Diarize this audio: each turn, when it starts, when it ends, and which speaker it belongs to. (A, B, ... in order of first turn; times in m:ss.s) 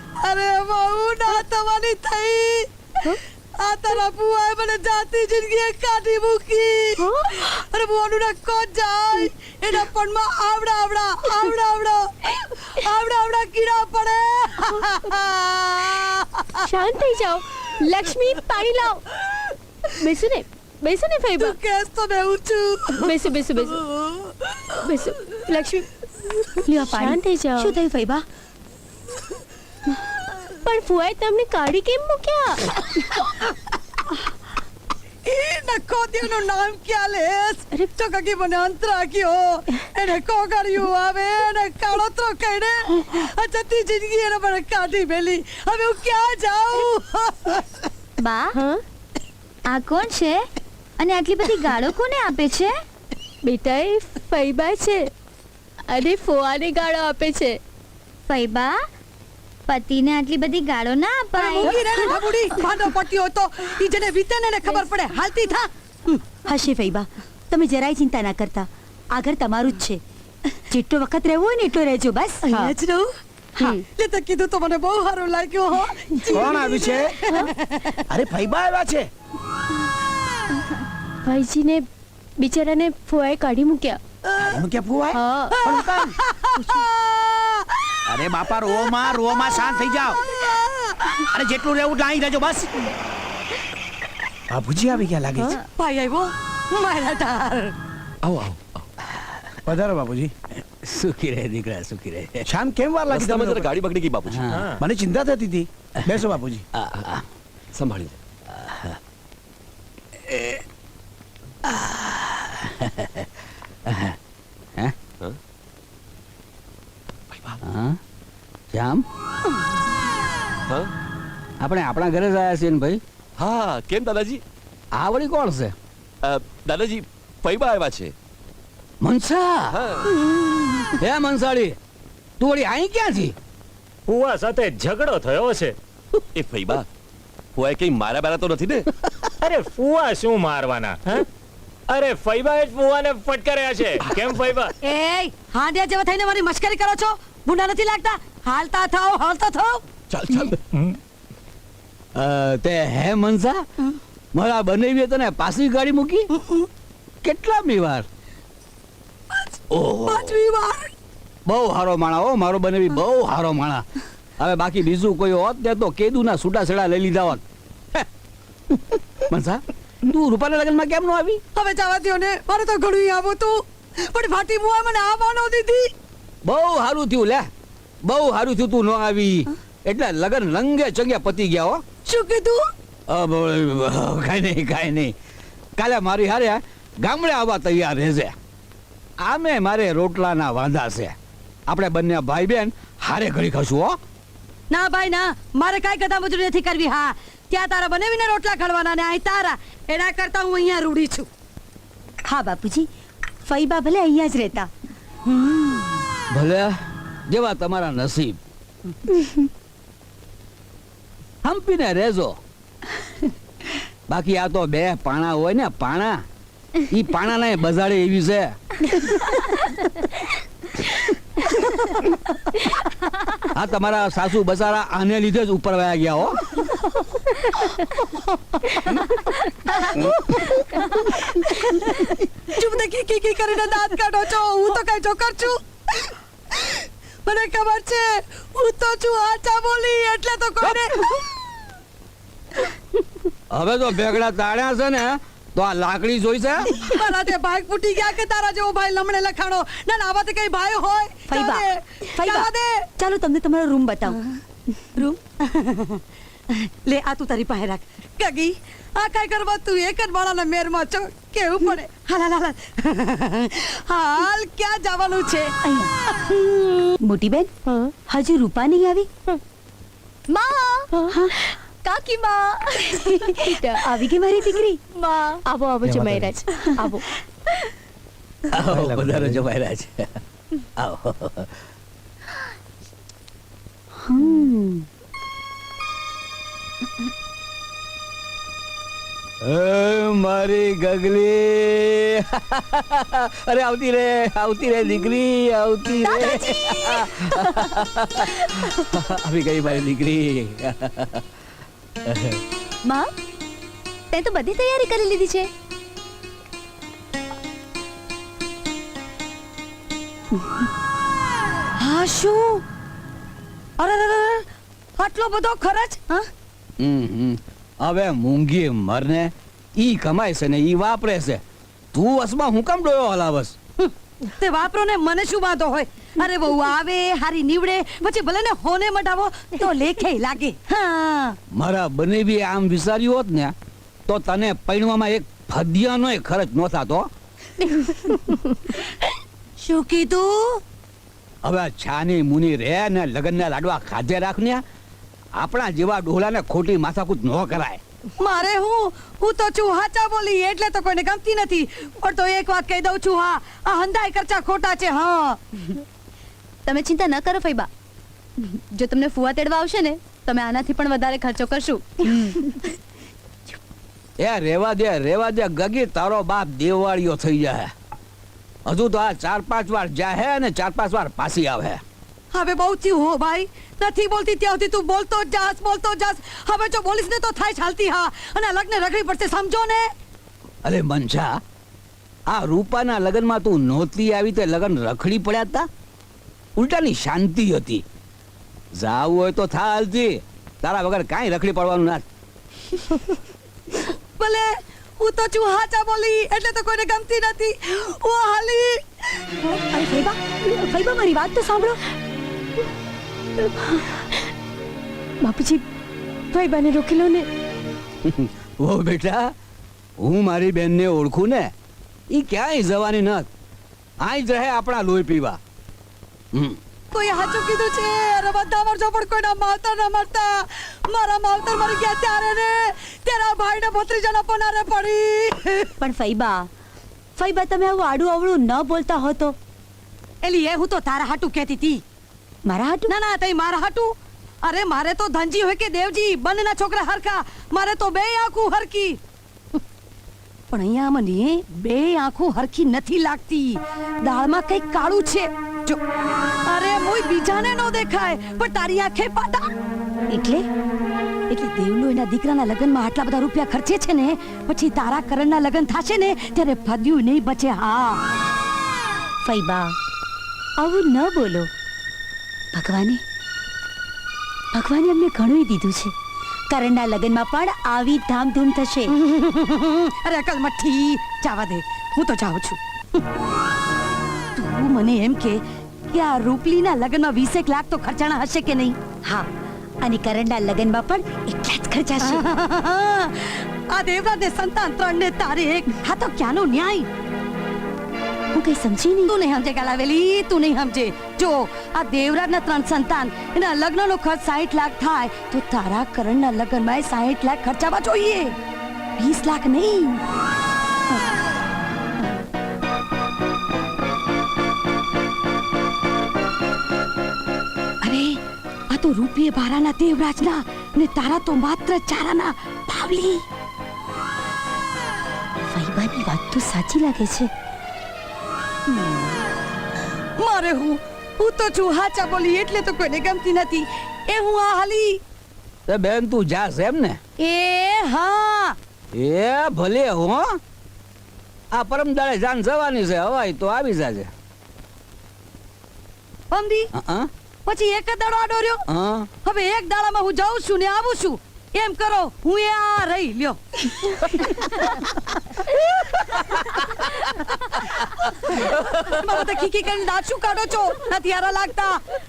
0:00.2-0:16.7 A
0:07.0-0:07.5 B
0:16.6-0:19.1 B
0:19.9-0:21.6 B
0:21.4-0:23.1 A
0:23.0-0:23.9 B
0:24.8-0:25.9 B
0:26.6-0:27.8 B
0:26.7-0:28.2 C
0:30.6-0:32.6 B
0:35.2-0:47.6 A
0:48.2-0:48.6 D
0:48.5-0:48.8 B
0:49.7-0:50.4 D
0:51.0-0:52.8 D
0:53.4-0:55.1 B
0:55.9-0:57.6 B
0:58.3-0:58.8 D
0:59.7-1:01.8 D
1:01.4-1:06.2 A
1:06.4-1:10.0 C
1:10.7-1:12.5 C
1:12.5-1:12.7 B
1:12.5-1:18.0 A
1:16.3-1:17.2 E
1:18.1-1:19.1 E
1:21.2-1:21.8 B
1:22.4-1:24.0 B
1:24.4-1:26.2 E
1:25.1-1:25.6 B
1:25.5-1:28.0 A
1:28.1-1:30.3 E
1:30.3-1:31.2 A
1:31.2-1:32.9 E
1:34.5-1:35.6 E
1:35.7-1:37.8 A
1:38.2-1:38.6 F
1:39.2-1:39.6 G
1:39.7-1:40.3 E
1:40.8-1:42.5 G
1:42.5-1:43.7 E
1:43.2-1:44.3 F
1:44.3-1:44.7 G
1:44.3-1:44.8 H
1:44.8-1:46.6 E
1:46.7-1:47.2 G
1:47.8-1:48.1 F
1:48.5-1:49.0 G
1:50.2-1:50.6 G
1:51.6-1:53.3 G
1:53.9-1:54.2 G
1:57.6-1:58.0 G
1:58.7-1:59.0 G
2:01.6-2:03.0 G
2:03.4-2:04.4 F
2:04.9-2:05.8 G
2:06.3-2:08.1 F
2:09.0-2:09.7 G
2:11.0-2:11.8 G
2:12.4-2:13.4 G
2:14.1-2:15.8 H
2:16.4-2:16.8 F
2:17.6-2:18.8 F
2:19.4-2:21.3 H
2:21.9-2:24.7 H
2:24.8-2:29.8 A
2:30.3-2:31.0 H
2:32.2-2:33.6 G
2:34.3-2:36.3 G
2:37.2-2:38.1 G
2:39.3-2:40.9 A
2:39.7-2:40.4 G
2:41.5-2:43.9 G
2:44.4-2:47.4 G
2:49.3-2:51.4 G
2:51.6-2:55.9 A
2:56.4-2:57.5 G
2:58.0-3:01.8 G
3:02.1-3:02.7 A
3:03.1-3:05.1 G
3:05.8-3:08.4 G
3:09.2-3:11.2 G
3:11.7-3:14.0 G
3:14.7-3:21.3 A
3:22.3-3:22.9 C
3:23.5-3:24.7 C
3:25.3-3:25.8 C
3:26.3-3:28.4 G
3:31.4-3:32.4 G
3:34.1-3:36.2 G
3:36.9-3:39.0 G
3:43.5-3:46.6 G
3:50.3-4:01.2 A
4:03.5-4:06.8 G
4:06.8-4:12.9 A
4:11.3-4:14.2 C
4:15.4-4:25.6 A
4:25.6-4:25.9 C
4:26.1-4:26.9 A
4:27.0-4:27.5 C
4:27.7-4:27.9 B
4:28.1-4:29.1 C
4:30.3-4:33.9 B
4:31.1-4:31.4 C
4:32.9-4:34.8 C
4:34.9-4:37.1 B
4:38.5-4:40.2 G
4:40.8-4:41.5 G
4:44.0-4:44.9 C
4:49.4-5:01.2 G
5:02.1-5:02.4 G
5:04.1-5:05.4 A
5:10.3-5:10.7 C
5:11.8-5:12.6 A
5:13.8-5:14.5 A
5:15.0-5:16.3 A
5:16.8-5:21.4 G
5:21.9-5:23.6 G
5:23.8-5:31.4 A
5:31.5-5:33.5 G
5:34.1-5:37.1 G
5:39.6-5:40.6 A
5:41.4-5:44.6 G
5:45.4-5:47.8 G
5:48.2-5:55.4 A
5:56.8-5:57.5 D
6:00.2-6:01.1 D
6:04.2-6:07.7 G
6:08.7-6:11.8 G
6:12.3-6:19.9 A
6:20.6-6:21.4 G
6:22.3-6:25.7 G
6:26.6-6:27.8 G
6:28.7-6:32.0 G
6:34.2-6:38.8 A
6:39.4-6:41.8 C
6:45.2-6:45.6 B
6:46.3-6:47.3 B
6:48.0-6:49.4 G
6:50.0-6:51.5 G
6:52.1-6:53.3 G
6:54.0-6:55.4 G
6:56.3-6:56.6 G
6:56.9-7:05.7 A
7:05.8-7:06.5 C
7:07.2-7:09.4 C
7:10.2-7:11.8 A
7:12.4-7:12.9 C
7:12.9-7:19.0 A
7:20.5-7:25.8 A
7:26.5-7:29.5 A
7:30.1-7:30.5 C
7:31.3-7:38.0 A
7:39.2-7:39.8 C
7:40.6-7:41.5 C
7:42.5-7:43.0 C
7:44.5-7:45.9 C
7:46.5-7:48.9 C
7:48.9-7:53.0 A
7:54.4-7:58.8 A
7:59.8-8:02.2 C
8:02.0-8:06.9 A
8:08.3-8:09.1 C
8:09.1-8:18.4 A
8:19.0-8:20.0 A
8:27.8-8:33.2 A
8:35.5-8:37.3 C
8:40.2-8:45.0 A
8:45.7-8:47.0 G
8:47.2-8:48.6 A
8:48.9-8:50.4 G
8:51.5-8:54.1 G
8:56.3-8:56.7 A
8:56.7-8:57.1 G
8:57.5-8:58.7 A
8:58.7-8:59.1 G
8:59.2-9:04.1 A
9:08.2-9:11.8 A